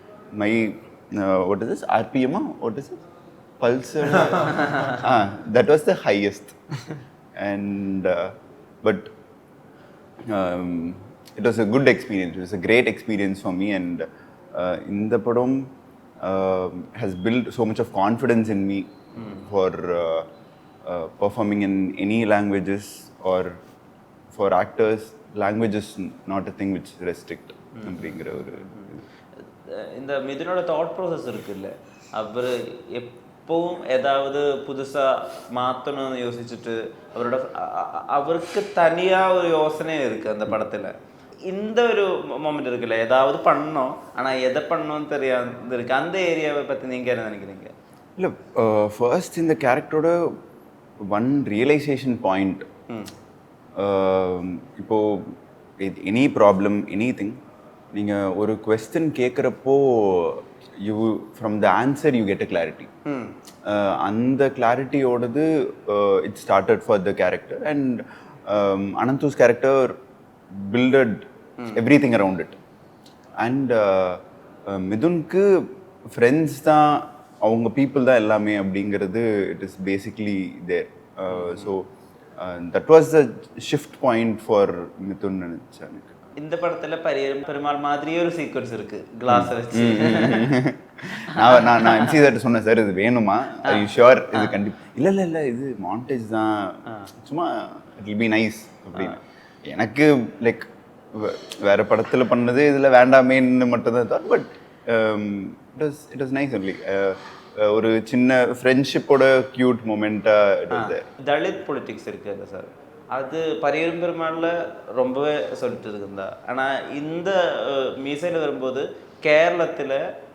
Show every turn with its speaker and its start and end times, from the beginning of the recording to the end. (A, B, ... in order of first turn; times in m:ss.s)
0:00.3-0:03.0 A
0:03.6-0:06.6 A
0:07.4-0:09.1 A
0:10.3-0:20.3 A
0:19.2-0:19.5 B
0:20.8-0:23.6 A
0:24.3-0:29.0 A
0:27.8-0:28.9 B
0:29.6-0:40.9 B
0:41.5-0:47.7 B
0:48.2-0:50.4 A
0:51.1-0:52.6 A
0:53.8-0:57.4 A
0:57.9-1:02.9 A
1:03.1-1:03.4 B
1:03.7-1:10.0 A
1:10.5-1:12.6 A
1:11.6-1:11.8 B
1:13.4-1:21.9 A
1:21.3-1:21.7 B
1:22.4-1:26.3 A
1:26.4-1:30.6 B
1:29.3-1:51.0 A
1:31.4-1:32.1 B
1:33.7-1:34.6 B
1:50.7-2:00.0 B